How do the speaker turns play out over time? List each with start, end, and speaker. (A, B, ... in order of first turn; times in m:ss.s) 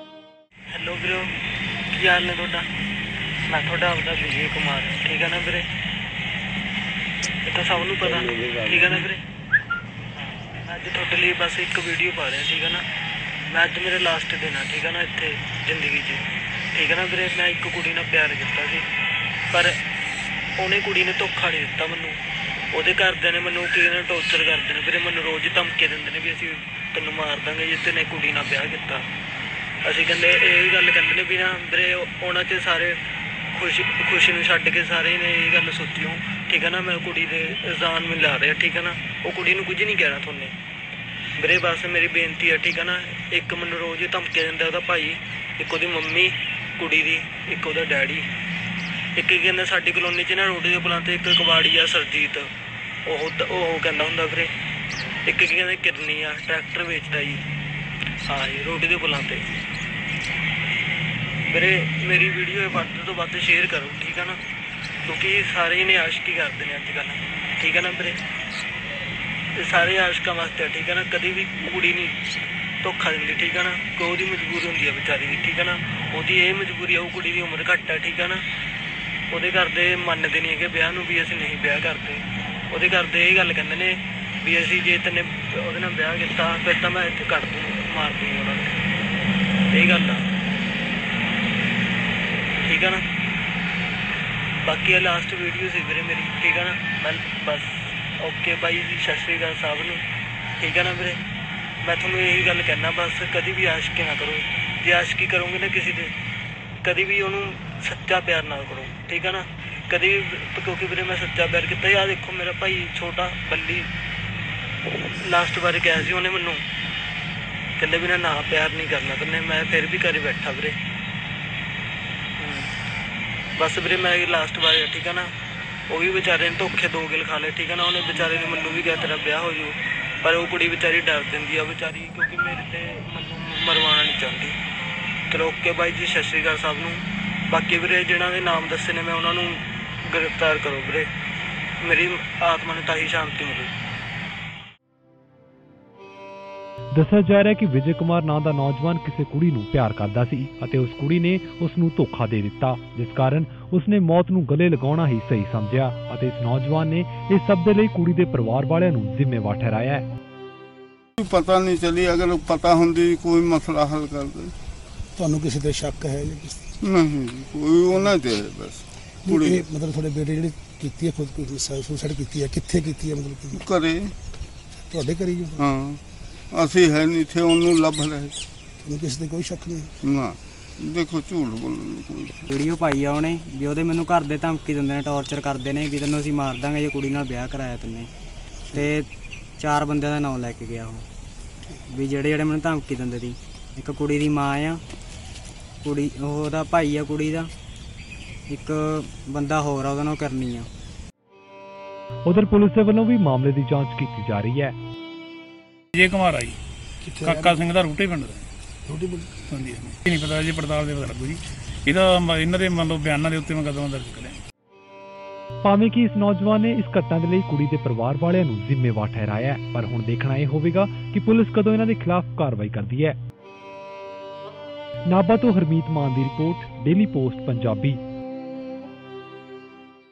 0:00.7-0:01.3 A
0:01.9-0:02.7 A
0:03.5-0:05.7 A
0:07.4-0:09.2 A
0:10.2-0:12.8 A
0:13.5-0:18.8 A
0:19.5-0:19.8 A
0:20.6-0:22.2 A
0:22.7-0:29.1 A
0:29.8-0:33.0 A
0:33.5-0:40.5 A
0:41.4-0:48.3 A
0:49.2-0:52.5 A
0:53.0-0:54.5 A
0:55.2-0:57.4 A
0:58.2-0:59.5 A
1:01.5-1:04.4 A
1:05.0-1:08.2 A
1:09.6-1:12.2 A
1:12.8-1:18.4 A
1:19.3-1:28.8 A
1:29.7-1:30.3 A
1:32.6-1:33.0 A
1:34.6-1:40.0 A
1:40.6-1:41.2 A
1:41.8-1:46.1 A
1:46.8-1:53.9 A
1:54.9-1:56.6 A
1:57.8-2:00.8 A
2:02.4-2:02.7 A
2:03.6-2:05.3 A
2:05.9-2:14.6 A
2:15.3-2:21.1 A
2:21.8-2:23.7 A
2:26.9-2:40.1 B
2:41.2-2:44.5 C
2:45.2-2:46.7 D
2:46.8-2:49.7 C
2:49.2-2:53.6 D
2:53.5-2:54.1 C
2:54.9-2:55.6 D
2:55.6-2:56.0 C
2:56.5-2:58.4 C
2:58.8-2:59.9 D
3:00.0-3:02.4 C
3:02.5-3:08.1 E
3:09.6-3:11.0 E
3:11.9-3:14.8 E
3:15.8-3:17.5 E
3:18.5-3:20.7 E
3:22.2-3:24.7 B
3:27.0-3:27.6 D
3:27.3-3:28.1 F
3:28.9-3:29.3 D
3:29.5-3:31.3 F
3:32.0-3:34.1 F
3:35.6-3:43.2 B
3:45.1-3:48.0 B